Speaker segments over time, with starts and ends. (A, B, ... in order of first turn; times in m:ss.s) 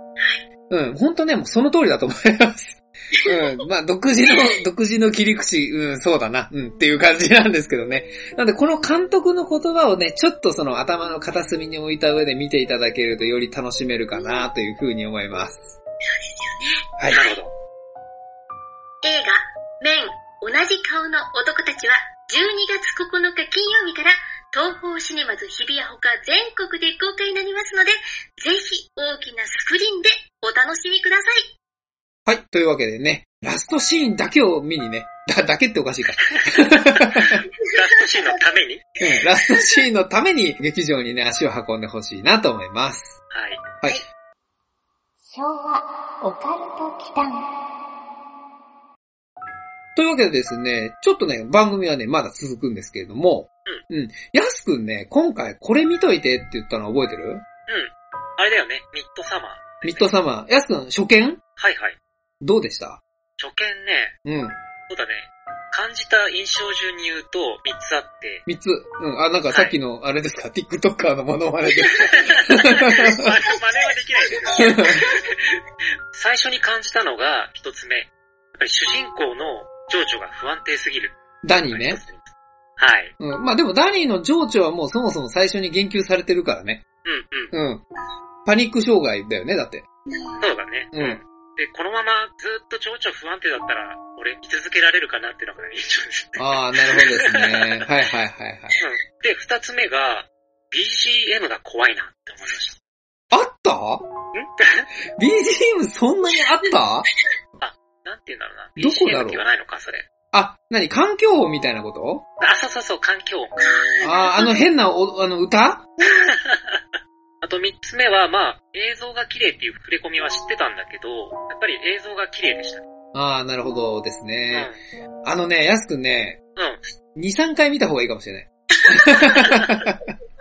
0:00.7-0:15.8 A
0:04.3-0:04.6 B
0:16.0-0:17.4 B
0:17.1-0:17.5 C
0:19.0-0:31.5 B
0:32.3-0:37.4 A
0:37.2-0:38.8 C
0:39.0-0:43.2 A
0:39.0-0:39.8 B
0:43.3-0:43.6 C
0:45.3-0:47.4 D
0:50.0-0:57.4 A
0:57.7-1:00.1 C
0:59.8-1:01.4 A
1:01.6-1:02.0 C
1:02.4-1:03.0 A
1:03.4-1:04.1 C
1:04.3-1:04.6 A
1:04.9-1:08.4 C
1:08.5-1:13.3 A
1:12.1-1:15.6 C
1:12.8-1:13.1 B
1:14.5-1:15.2 B
1:14.6-1:15.1 A
1:16.1-1:22.3 C
1:21.4-1:22.0 A
1:22.8-1:23.1 C
1:23.2-1:26.8 A
1:27.0-1:27.5 C
1:27.5-1:27.8 A
1:28.5-1:29.8 A
1:30.1-1:30.4 B
1:30.4-1:37.9 C
1:30.9-1:31.2 A
1:36.4-1:38.8 A
1:38.8-1:42.8 C
1:43.3-1:44.1 A
1:44.4-1:44.9 C
1:45.2-1:47.1 A
1:47.6-1:50.1 C
1:48.8-1:49.4 A
1:50.3-1:52.2 A
1:52.4-1:53.6 C
1:53.6-1:54.6 B
1:54.0-1:55.9 A
1:56.1-1:56.8 C
1:57.4-2:02.8 C
2:03.1-2:04.7 A
2:05.2-2:06.4 A
2:07.2-2:10.0 A
2:08.8-2:09.5 B